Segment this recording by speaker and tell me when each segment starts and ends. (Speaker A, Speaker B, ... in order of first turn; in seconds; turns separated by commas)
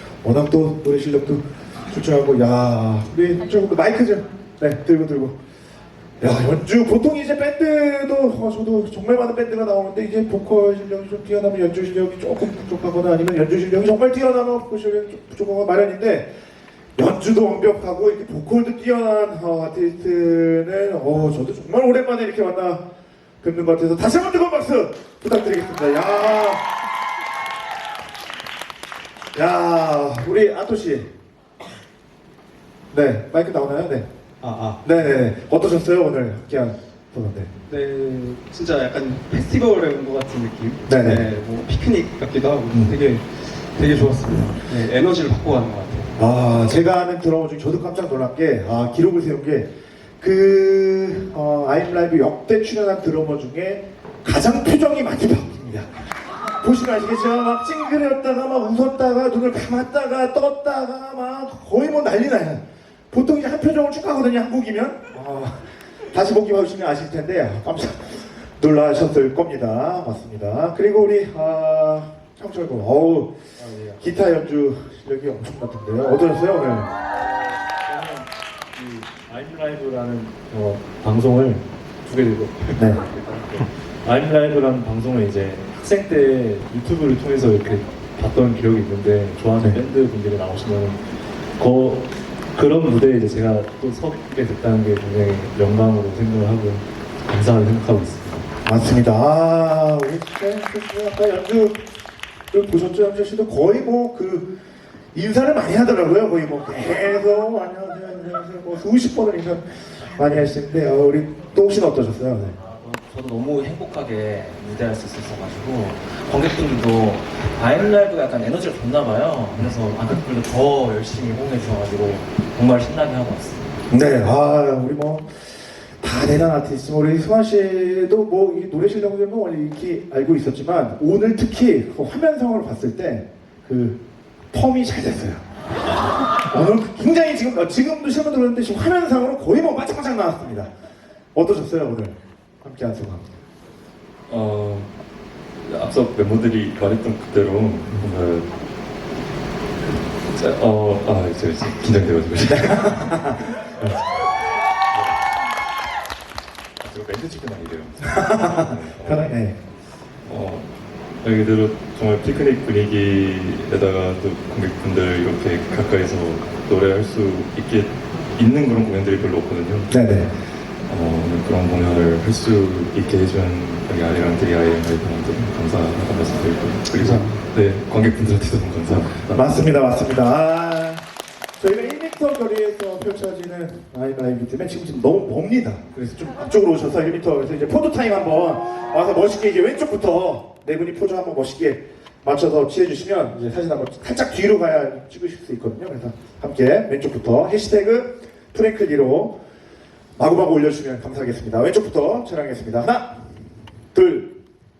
Speaker A: 0.2-5.4, Speaker A: 6.2-16.3, Speaker A: 16.9-22.8, Speaker A: 23.4-26.7, Speaker A: 29.3-31.1, Speaker A: 32.9-34.1, Speaker B: 34.4-34.8, Speaker A: 34.8-37.5, Speaker B: 37.7-46.1, Speaker A: 40.9-41.3, Speaker A: 46.2-73.4, Speaker C: 73.6-74.0, Speaker A: 74.0-76.9, Speaker C: 77.0-91.0, Speaker C: 91.6-98.5, Speaker A: 98.6-101.8, Speaker A: 102.5-104.5, Speaker A: 105.1-112.6, Speaker D: 113.0-123.7, Speaker A: 123.9-125.5, Speaker A: 126.0-134.0, Speaker A: 134.5-135.4, Speaker A: 136.3-140.7, Speaker A: 141.3-143.3, Speaker E: 144.3-144.9, Speaker E: 145.6-148.5, Speaker E: 150.3-153.2, Speaker A: 152.5-153.9, Speaker E: 154.9-155.2, Speaker E: 156.8-159.4, Speaker A: 158.2-159.6, Speaker E: 160.2-160.7, Speaker E: 161.2-169.9, Speaker A: 169.9-170.3, Speaker E: 170.9-179.7, Speaker B: 177.0-177.4, Speaker A: 179.3-181.0, Speaker A: 181.6-199.4, Speaker A: 200.2-203.1, Speaker A: 203.9-204.3